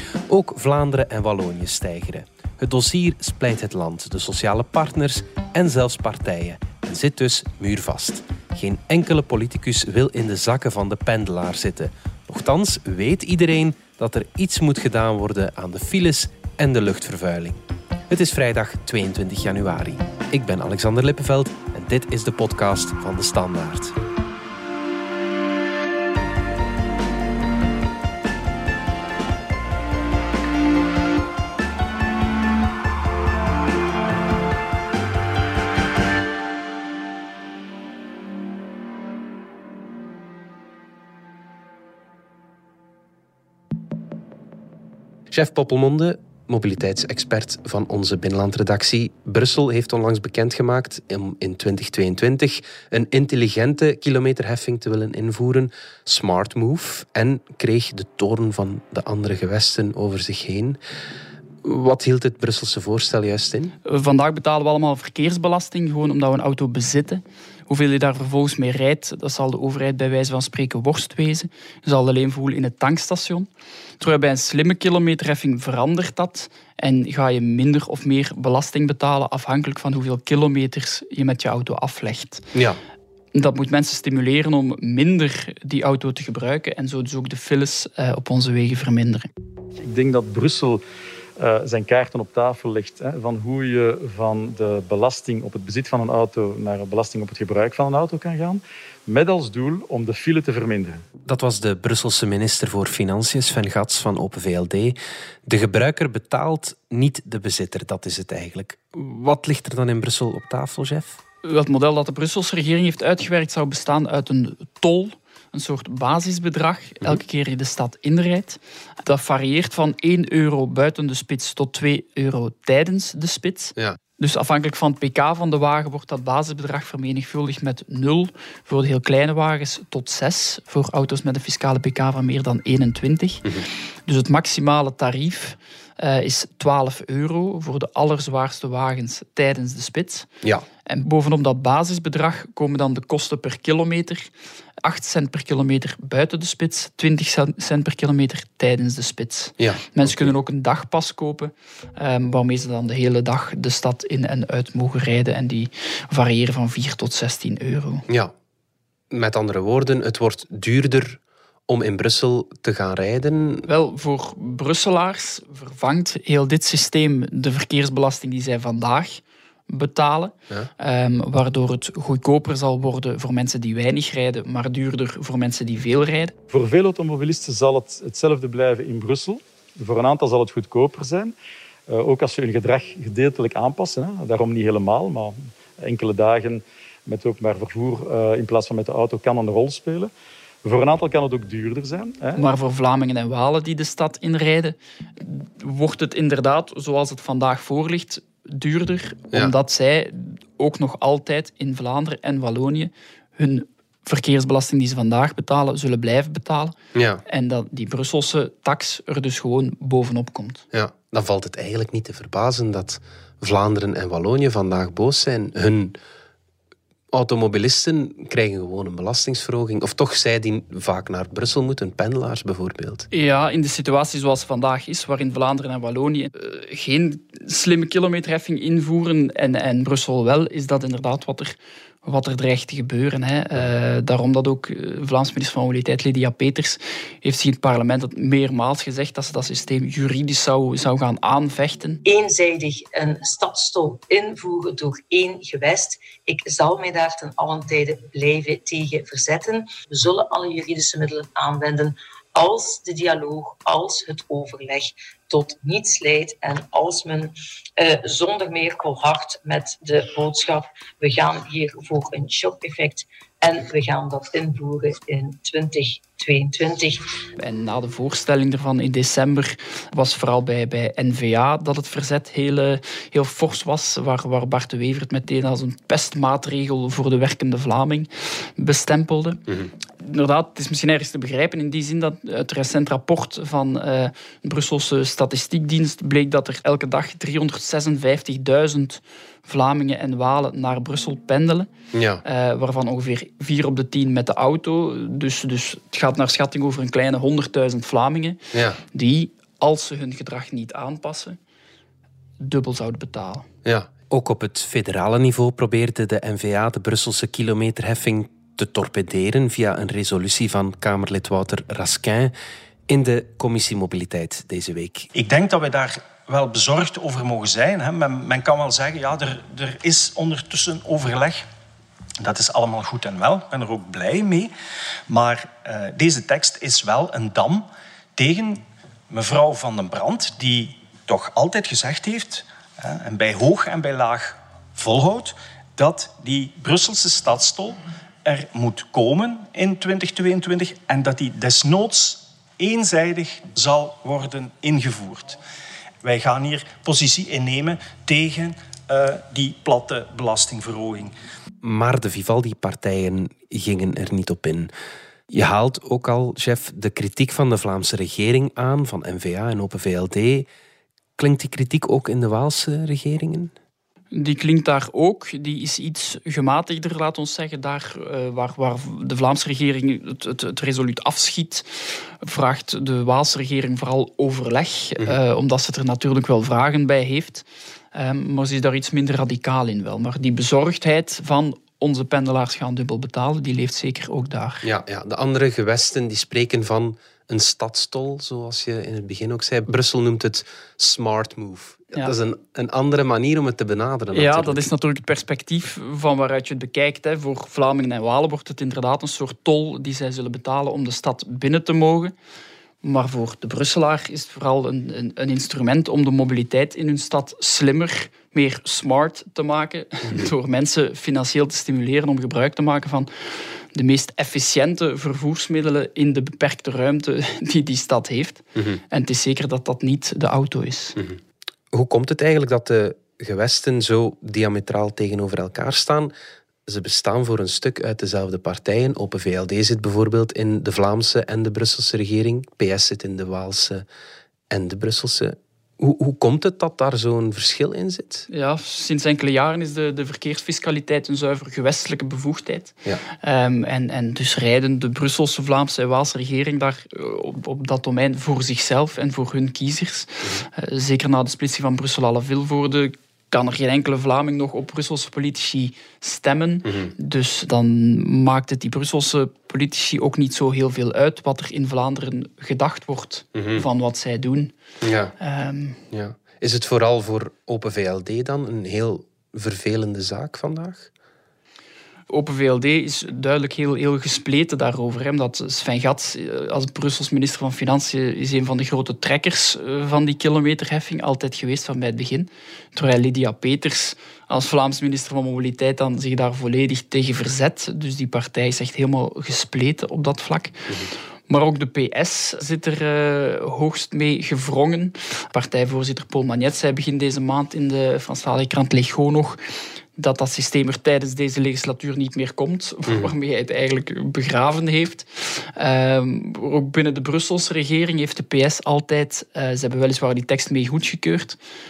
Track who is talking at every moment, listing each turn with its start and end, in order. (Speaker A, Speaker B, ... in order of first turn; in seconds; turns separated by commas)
Speaker A: 0.3-23.9, Speaker A: 45.3-60.8, Speaker A: 61.6-63.7, Speaker B: 63.8-73.5, Speaker B: 74.0-82.4, Speaker A: 82.5-82.8, Speaker B: 83.3-89.3, Speaker C: 89.8-90.8, Speaker C: 91.4-101.0, Speaker A: 101.2-111.2, Speaker B: 111.4-133.5, Speaker B: 134.1-140.3, Speaker B: 140.9-144.3, Speaker B: 144.8-158.1, Speaker A: 149.6-150.3, Speaker A: 159.1-163.7, Speaker B: 163.7-176.3, Speaker C: 176.5-181.3, Speaker C: 181.9-190.1, Speaker C: 190.6-192.4, Speaker B: 192.3-206.8, Speaker A: 206.9-207.2, Speaker B: 207.2-210.6, Speaker A: 210.7-216.0, Speaker A: 217.1-223.1, Speaker B: 223.1-242.0, Speaker D: 242.0-267.0, Speaker B: 267.4-279.4, Speaker B: 280.0-291.7, Speaker A: 291.9-292.2, Speaker B: 292.2-298.4, Speaker A: 298.5-298.8, Speaker B: 298.9-301.4, Speaker B: 302.4-303.5, Speaker A: 303.6-312.3, Speaker A: 312.9-315.1, Speaker E: 315.1-321.5, Speaker E: 322.2-324.5, Speaker E: 325.1-345.4, Speaker E: 346.0-351.1, Speaker A: 351.6-354.7, Speaker A: 355.3-360.5, Speaker A: 361.2-363.5, Speaker B: 364.1-384.7, Speaker A: 384.6-394.7, Speaker B: 394.1-402.1, Speaker B: 402.8-413.1, Speaker A: 410.0-410.3, Speaker B: 413.7-421.0, Speaker A: 418.6-418.8, Speaker A: 421.7-426.1, Speaker A: 426.7-433.9, Speaker A: 434.5-438.3, Speaker B: 438.3-464.5, Speaker A: 456.6-456.9, Speaker A: 463.4-463.6, Speaker A: 464.8-465.1, Speaker B: 465.2-465.8, Speaker A: 465.9-470.9, Speaker B: 472.1-490.7, Speaker B: 491.3-499.4, Speaker B: 499.9-511.4, Speaker A: 502.9-503.1